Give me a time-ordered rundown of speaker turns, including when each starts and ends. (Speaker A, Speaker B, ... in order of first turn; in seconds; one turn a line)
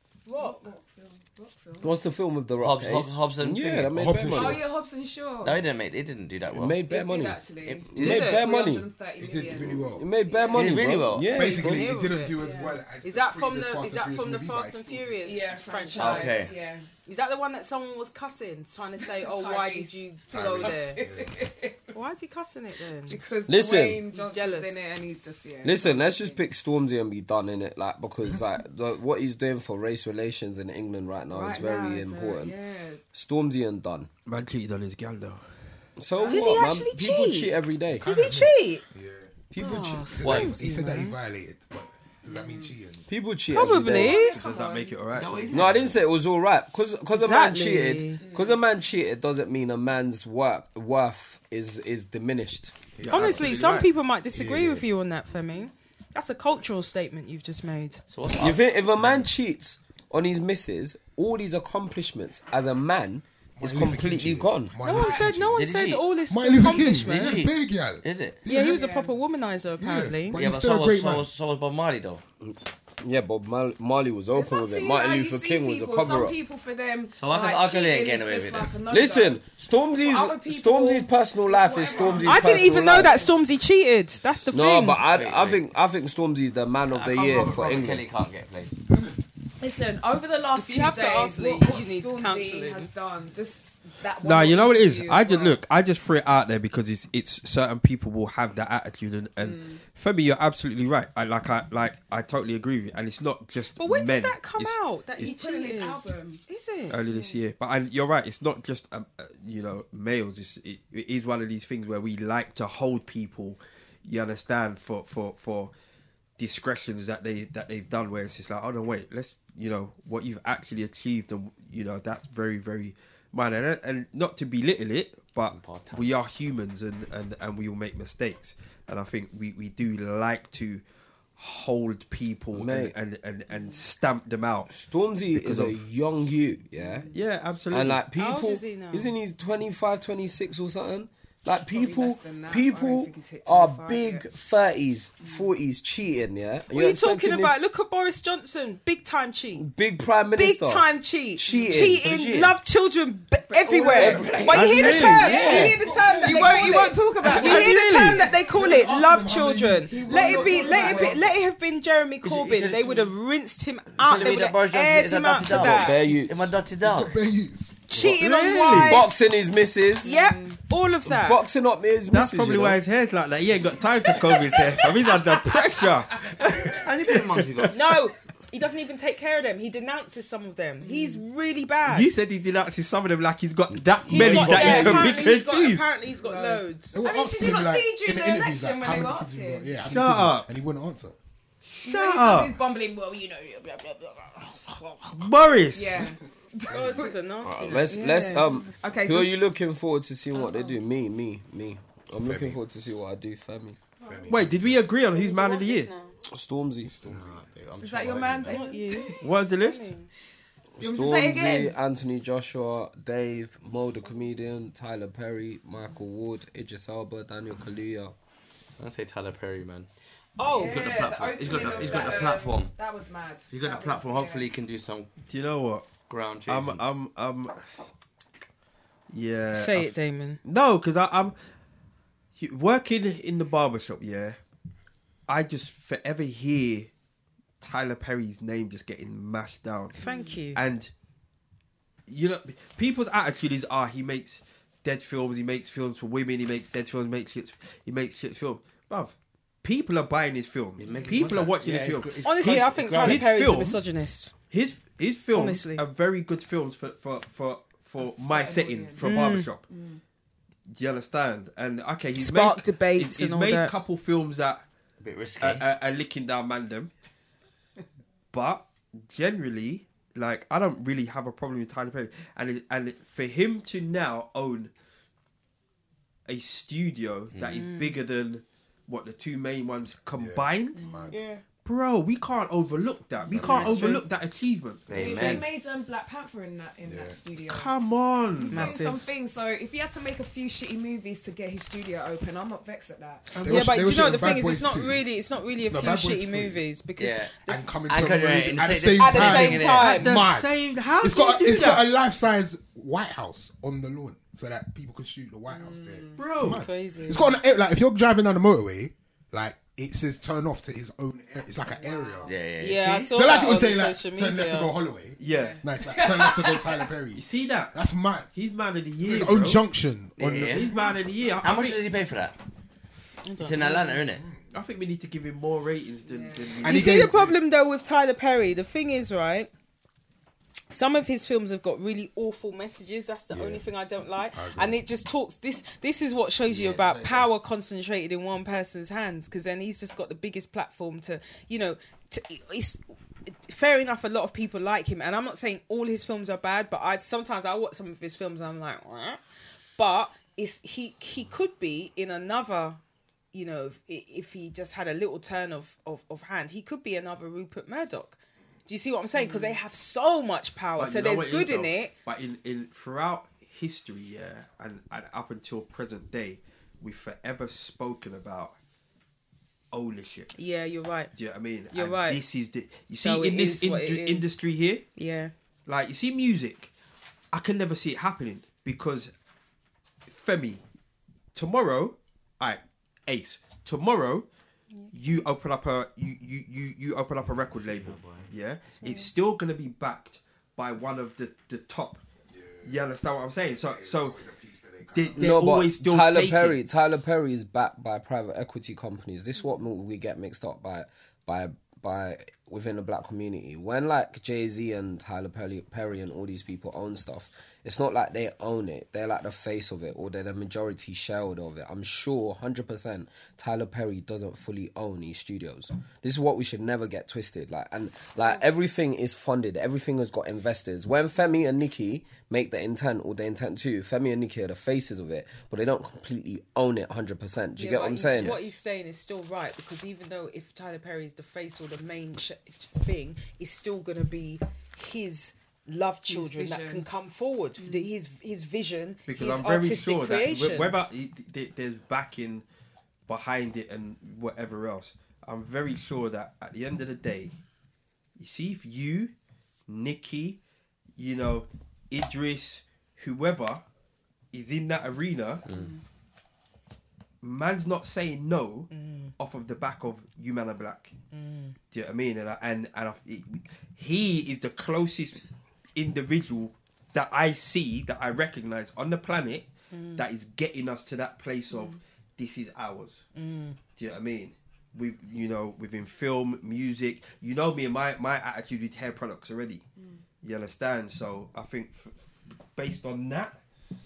Speaker A: 0.2-0.6
Speaker B: 0.3-1.9
Speaker C: 1.8-4.6
Speaker D: 2.6-4.0
Speaker E: 3.9-4.6
Speaker B: 4.2-5.6
Speaker D: 5.4-6.8
Speaker C: 6.5-8.9
Speaker B: 6.9-10.8
Speaker A: 8.0-8.5
Speaker E: 9.2-10.1
Speaker C: 9.9-11.9
Speaker D: 10.5-11.4
Speaker E: 11.2-15.2
Speaker A: 11.4-12.4
Speaker B: 12.4-12.8
Speaker A: 13.0-16.5
Speaker B: 15.2-16.9
Speaker D: 15.9-16.6
Speaker A: 17.1-21.0
Speaker B: 19.0-21.9
Speaker E: 20.3-21.3
Speaker A: 21.9-23.2
Speaker B: 23.1-26.4
Speaker C: 23.5-24.1
Speaker A: 24.1-24.8
Speaker C: 25.6-32.6
Speaker B: 31.3-33.0
Speaker C: 33.1-34.1
Speaker F: 34.2-35.5
Speaker C: 36.0-38.1
Speaker B: 36.1-36.7
Speaker A: 36.2-38.8
Speaker E: 37.9-43.1
Speaker A: 39.5-41.2
Speaker D: 40.2-40.6
Speaker B: 42.3-42.7
Speaker C: 43.1-44.2
Speaker A: 43.5-44.4
Speaker B: 43.8-45.1
Speaker F: 44.0-45.5
Speaker D: 45.1-46.0
Speaker C: 45.5-52.7
Speaker A: 47.1-48.2
Speaker B: 48.2-48.6
Speaker E: 53.0-53.7
Speaker F: 53.0-53.9
Speaker A: 53.1-58.0
Speaker E: 54.3-54.9
Speaker D: 58.1-58.6
Speaker C: 58.4-64.7
Speaker E: 59.0-59.3
Speaker E: 63.6-65.6
Speaker A: 64.8-67.5
Speaker B: 64.8-65.3
Speaker D: 65.5-66.0
Speaker E: 66.3-68.8
Speaker D: 67.0-68.5
Speaker A: 68.5-70.4
Speaker B: 68.5-69.1
Speaker E: 69.8-71.3
Speaker D: 70.3-72.2
Speaker C: 72.4-76.4
Speaker B: 74.3-79.4
Speaker D: 77.2-78.7
Speaker C: 78.9-83.2
Speaker B: 80.0-83.4
Speaker A: 82.2-85.0
Speaker C: 84.5-88.0
Speaker D: 84.6-85.6
Speaker D: 86.9-88.8
Speaker E: 88.9-89.2
Speaker B: 89.6-95.6
Speaker A: 90.5-92.9
Speaker F: 94.2-105.3
Speaker B: 99.4-99.8
Speaker A: 103.8-107.0
Speaker B: 105.2-106.4
Speaker F: 106.9-115.7
Speaker B: 107.0-107.4
Speaker F: 116.4-130.8
Speaker D: 125.5-126.1
Speaker F: 131.4-134.7
Speaker C: 132.5-132.9
Speaker B: 133.5-133.8
Speaker C: 134.7-137.1
Speaker F: 135.3-135.8
Speaker B: 136.8-137.2
Speaker F: 137.1-138.1
Speaker C: 137.7-147.6
Speaker A: 138.2-139.1
Speaker B: 141.7-144.2
Speaker A: 146.7-149.7
Speaker C: 149.6-150.9
Speaker A: 150.3-166.0
Speaker C: 151.4-152.0
Speaker D: 151.7-152.5
Speaker B: 153.5-158.7
Speaker C: 154.0-155.8
Speaker D: 154.0-155.2
Speaker E: 155.5-157.7
Speaker F: 157.2-158.2
Speaker E: 158.3-161.3
Speaker B: 159.8-161.3
Speaker D: 162.2-163.1
Speaker D: 164.0-167.2
Speaker C: 165.4-166.4
Speaker E: 166.8-167.8
Speaker A: 167.9-169.1
Speaker F: 167.9-169.1
Speaker C: 168.8-170.1
Speaker B: 170.0-170.6
Speaker A: 170.0-171.4
Speaker C: 171.1-172.8
Speaker F: 172.1-177.7
Speaker B: 173.7-176.5
Speaker D: 176.7-177.8
Speaker A: 177.7-182.1
Speaker B: 180.8-181.2
Speaker F: 181.8-185.9
Speaker A: 184.1-187.0
Speaker E: 184.7-185.0
Speaker B: 186.1-189.8
Speaker E: 186.9-191.2
Speaker F: 189.8-190.5
Speaker B: 191.6-197.1
Speaker F: 191.8-192.6
Speaker F: 195.1-196.1
Speaker A: 196.7-198.8
Speaker E: 196.7-197.1
Speaker C: 197.4-203.8
Speaker B: 198.8-199.6
Speaker B: 200.3-200.8
Speaker E: 202.2-202.6
Speaker E: 204.0-204.8
Speaker B: 204.0-204.4
Speaker F: 204.3-205.9
Speaker A: 205.1-206.1
Speaker C: 206.3-206.9
Speaker E: 206.9-207.4
Speaker D: 207.0-208.7
Speaker B: 207.8-209.3
Speaker A: 208.4-210.1
Speaker F: 209.2-209.9
Speaker C: 210.8-218.2
Speaker B: 210.8-211.7
Speaker D: 218.8-219.9
Speaker A: 220.4-220.9
Speaker B: 220.4-224.5
Speaker D: 220.5-222.7
Speaker D: 223.5-225.1
Speaker F: 225.3-227.7
Speaker D: 226.1-226.8
Speaker F: 229.1-231.4
Speaker A: 229.5-230.4
Speaker F: 232.4-234.4
Speaker F: 235.3-236.9
Speaker F: 237.6-240.0
Speaker A: 240.0-240.6
Speaker B: 240.0-240.4
Speaker F: 240.5-240.9
Speaker F: 242.1-253.9
Speaker D: 250.8-253.3
Speaker B: 251.0-251.2
Speaker A: 252.2-254.3
Speaker F: 254.5-259.6
Speaker A: 255.3-255.8
Speaker B: 258.0-260.0
Speaker A: 259.0-259.5
Speaker F: 260.7-264.6
Speaker A: 262.1-263.7
Speaker D: 265.0-265.6
Speaker F: 265.4-266.9
Speaker F: 268.3-274.7
Speaker F: 276.3-280.8
Speaker D: 277.3-277.6
Speaker A: 277.4-278.0
Speaker E: 280.2-281.2
Speaker B: 280.8-281.4
Speaker A: 281.1-281.4
Speaker F: 281.6-285.4
Speaker B: 283.3-283.9
Speaker A: 283.3-284.0
Speaker E: 283.4-283.8
Speaker D: 284.9-285.5
Speaker B: 284.9-287.8
Speaker E: 286.9-287.2
Speaker F: 287.5-288.8
Speaker B: 288.3-293.6
Speaker A: 288.5-289.1
Speaker E: 293.3-295.0
Speaker A: 293.3-297.6
Speaker E: 295.7-296.6
Speaker D: 297.0-297.4
Speaker E: 297.5-312.3
Speaker D: 297.9-299.9
Speaker A: 299.0-300.1
Speaker F: 299.8-301.8
Speaker B: 305.5-306.2
Speaker F: 306.2-306.6
Speaker A: 306.4-307.3
Speaker B: 311.6-312.4
Speaker D: 312.2-313.1
Speaker A: 312.6-314.7
Speaker E: 313.1-318.3
Speaker F: 315.2-315.6
Speaker B: 315.2-316.9
Speaker F: 317.1-317.7
Speaker F: 318.3-319.6
Speaker E: 319.0-320.7
Speaker D: 320.2-320.7
Speaker F: 320.4-321.8
Speaker D: 321.4-322.4
Speaker A: 323.2-324.1
Speaker D: 323.4-324.2
Speaker F: 324.5-327.3
Speaker B: 326.0-326.9
Speaker E: 326.6-327.1
Speaker A: 326.6-329.5
Speaker A: 330.7-349.2
Speaker E: 333.3-333.6
Speaker E: 334.3-334.8
Speaker D: 336.5-337.3
Speaker A: 349.8-352.8
Speaker A: 353.3-361.9
Speaker B: 359.1-359.6
Speaker F: 360.8-368.6
Speaker F: 369.7-370.3
Speaker A: 370.4-371.1
Speaker F: 371.1-374.8
Speaker A: 371.7-372.2
Speaker A: 373.0-374.3
Speaker A: 374.9-375.3
Speaker F: 375.6-376.7
Speaker F: 377.3-379.1
Speaker F: 380.1-380.6
Speaker F: 381.3-384.2
Speaker F: 384.9-392.0
Speaker D: 387.5-388.3
Speaker A: 388.8-389.1
Speaker E: 392.3-392.8
Speaker F: 392.6-394.2
Speaker E: 393.5-395.3
Speaker F: 394.9-396.6
Speaker C: 395.2-428.4
Speaker A: 427.6-440.9
Speaker B: 428.0-428.3
Speaker B: 436.1-436.9
Speaker B: 437.6-437.9
Speaker F: 439.1-442.4
Speaker F: 443.1-447.3
Speaker F: 448.2-449.1
Speaker F: 449.7-450.4
Speaker F: 451.0-453.6
Speaker F: 454.3-455.4
Speaker D: 455.4-455.7
Speaker F: 457.2-460.9
Speaker A: 458.7-459.1
Speaker A: 461.1-461.6
Speaker F: 461.7-465.2
Speaker F: 465.7-473.1
Speaker A: 469.7-470.1
Speaker A: 473.1-473.6
Speaker F: 473.8-479.6
Speaker B: 479.8-480.0
Speaker F: 480.2-483.4